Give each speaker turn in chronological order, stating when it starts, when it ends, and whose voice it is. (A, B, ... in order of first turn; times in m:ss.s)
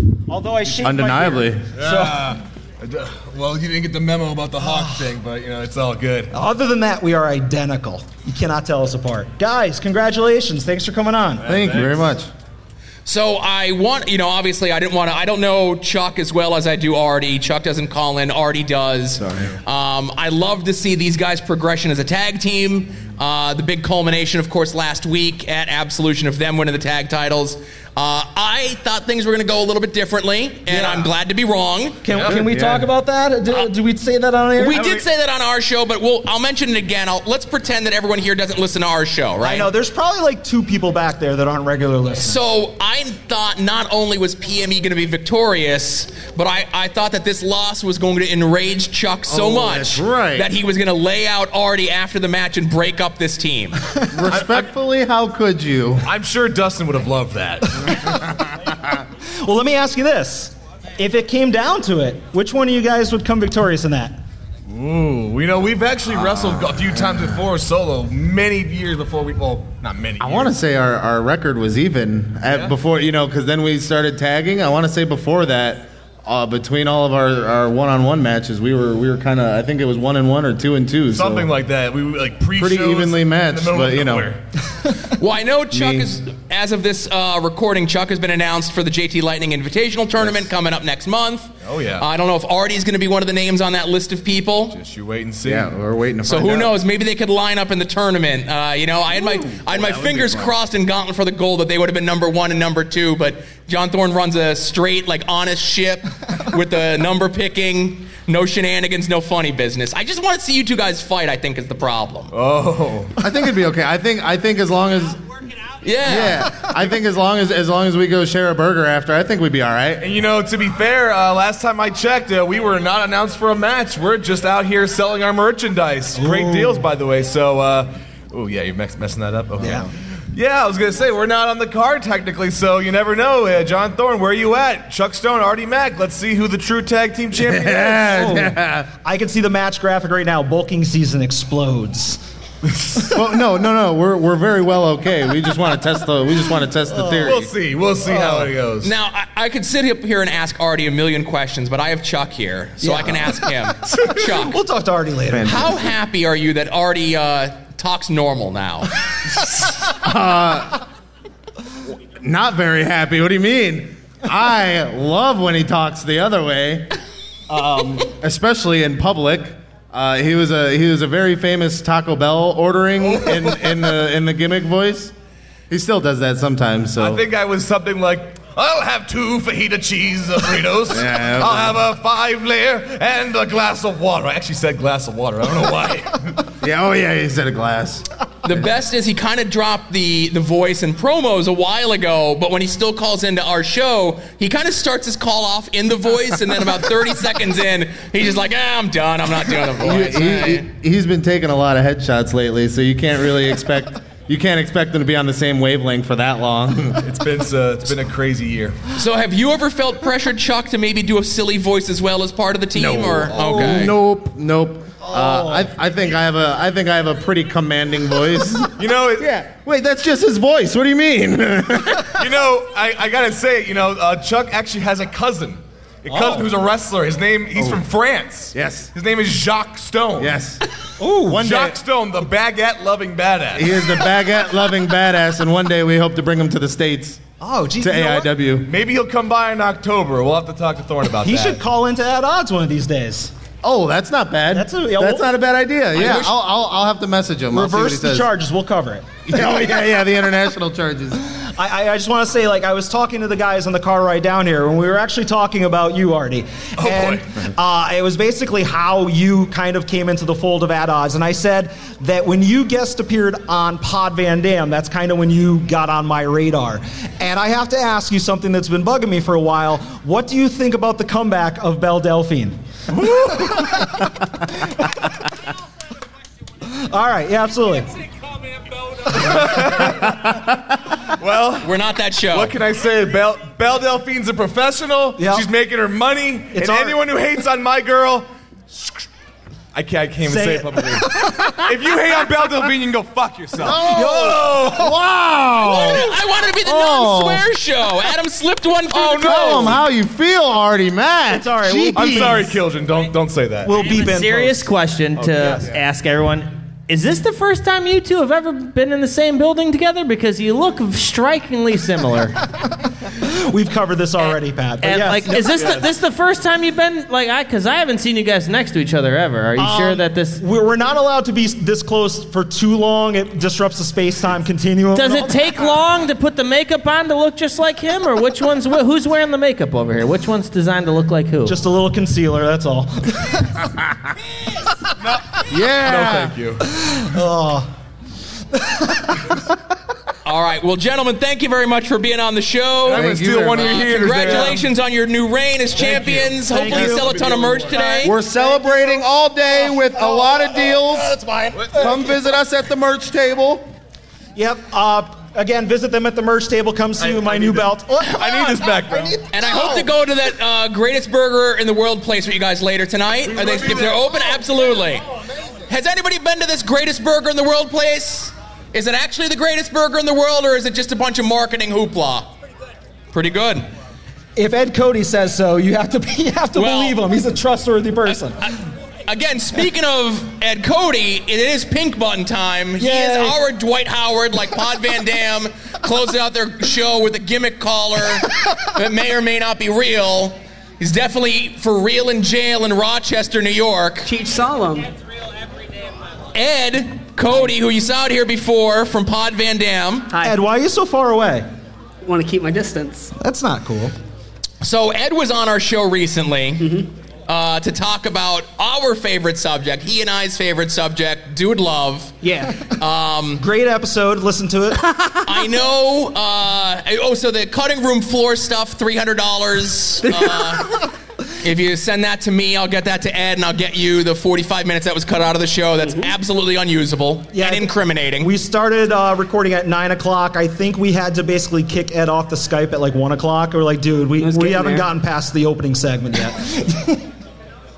0:00.3-0:02.4 A
0:00.8-0:01.7 B
0:01.8-0:06.3 C
0:04.6-0:05.0 A
0:06.3-0:11.4 A
0:11.4-0:12.1 C
0:11.4-0:12.3 B
0:13.0-0:32.0 D
0:19.2-0:19.6 B
0:30.7-0:31.1 A
0:32.0-0:35.0 A
0:32.1-0:32.4 C
0:32.1-0:32.8 B
0:34.6-0:39.7 D
0:39.4-0:42.4 A
0:42.2-0:53.8 D
0:49.3-0:50.5 B
0:53.8-0:54.3 A
0:54.1-0:56.0 B
0:54.3-0:54.6 C
0:56.0-0:58.1 C
0:59.4-1:04.2 A
1:04.7-1:10.5 C
1:10.2-1:21.5 B
1:12.4-1:12.7 C
1:21.1-1:24.4 C
1:22.5-1:24.3 B
1:25.0-1:34.8 D
1:25.7-1:26.1 B
1:31.6-1:32.0 C
1:34.7-1:35.7 C
1:35.4-1:36.7 B
1:36.2-1:52.3 D
1:39.1-1:40.5 C
1:52.3-1:53.1 C
1:53.2-1:55.2 B
1:55.8-1:56.4 D
1:56.0-2:00.0 B
2:00.0-2:18.5 C
2:06.1-2:06.9 A
2:09.6-2:09.9 A
2:17.4-2:18.9 B
2:18.1-2:22.2 A
2:22.7-2:23.1 C
2:23.0-2:27.5 B
2:26.9-2:27.3 A
2:27.2-2:28.9 C
2:28.0-2:28.5 A
2:28.8-2:34.6 D
2:32.8-2:35.8 A
2:35.3-2:35.8 B
2:35.4-2:38.9 D
2:39.4-2:40.8 B
2:42.2-2:46.9 B
2:47.5-2:48.0 A
2:47.8-2:55.1 B
2:53.0-2:53.7 C
2:55.7-2:57.2 B
2:57.0-3:06.4 C
3:00.9-3:01.8 B
3:06.6-3:08.6 B
3:08.4-3:20.6 D
3:19.8-3:27.0 B
3:27.0-3:28.8 C
3:28.9-3:33.9 D
3:32.7-3:38.7 B
3:33.4-3:33.9 A
3:35.0-3:35.7 A
3:38.8-3:39.4 C
3:39.6-3:42.2 B
3:42.1-3:50.3 C
3:46.1-3:46.5 A
3:48.5-3:48.9 B
3:50.2-3:50.6 B
3:51.0-3:51.4 A
3:51.2-3:51.8 B
3:51.4-3:53.8 C
3:53.6-3:57.2 B
3:57.4-3:58.3 A
3:57.8-3:58.7 B
3:58.6-4:01.6 C
4:01.2-4:03.3 A
4:03.6-4:08.3 B
4:04.5-4:05.3 A
4:05.9-4:06.3 D
4:07.5-4:09.3 A
4:09.3-4:11.2 B
4:11.2-4:32.6 A
4:16.8-4:17.2 C
4:33.0-4:33.7 C
4:33.3-4:34.6 A
4:36.6-4:37.9 A
4:39.0-4:40.2 C
4:41.1-4:41.7 C
4:41.6-4:42.5 D
4:42.3-4:48.8 C
4:45.2-4:45.5 A
4:46.5-4:47.0 A
4:49.7-4:54.4 C
4:50.2-4:51.7 A
4:53.6-4:57.4 B
4:53.6-4:55.0 A
4:55.6-4:59.8 D
4:58.9-4:59.8 C
4:59.2-5:02.4 B
5:01.3-5:02.6 A
5:02.0-5:03.9 C
5:03.6-5:04.6 A
5:03.8-5:12.4 E
5:05.2-5:05.7 C
5:05.3-5:05.7 A
5:12.6-5:15.9 A
5:14.8-5:20.4 E
5:19.6-5:25.8 A
5:24.9-5:31.5 E
5:31.4-5:33.7 A
5:35.0-5:36.6 C
5:35.5-5:36.4 B
5:36.7-5:37.7 A
5:38.5-5:39.5 A
5:40.2-5:48.1 D
5:42.9-5:44.6 B
5:42.9-5:44.6 C
5:45.8-5:47.8 C
5:46.5-5:52.2 A
5:47.8-5:51.2 B
5:51.5-5:51.9 C
5:51.7-5:53.7 B
5:54.4-5:59.9 A
5:57.0-5:59.2 C
5:59.3-6:05.0 D
6:03.3-6:04.0 C
6:05.7-6:12.3 D
6:13.1-6:13.7 D
6:14.4-6:18.4 A
6:16.6-6:17.0 D
6:18.1-6:18.6 D
6:19.1-6:34.1 D
6:22.8-6:23.4 A
6:34.0-6:34.9 F
6:36.3-6:40.1 D
6:40.1-6:40.4 F
6:40.2-6:41.4 A
6:42.0-6:43.1 F
6:43.2-6:43.9 A
6:44.6-6:46.7 D
6:46.6-6:46.9 F
6:47.3-6:53.4 D
6:52.2-6:52.6 F
6:53.4-6:54.8 A
6:54.8-6:55.4 F
6:55.2-7:00.8 D
7:00.0-7:00.8 F
7:01.4-7:08.3 D
7:05.8-7:06.1 F
7:07.3-7:17.1 A
7:14.2-7:14.9 F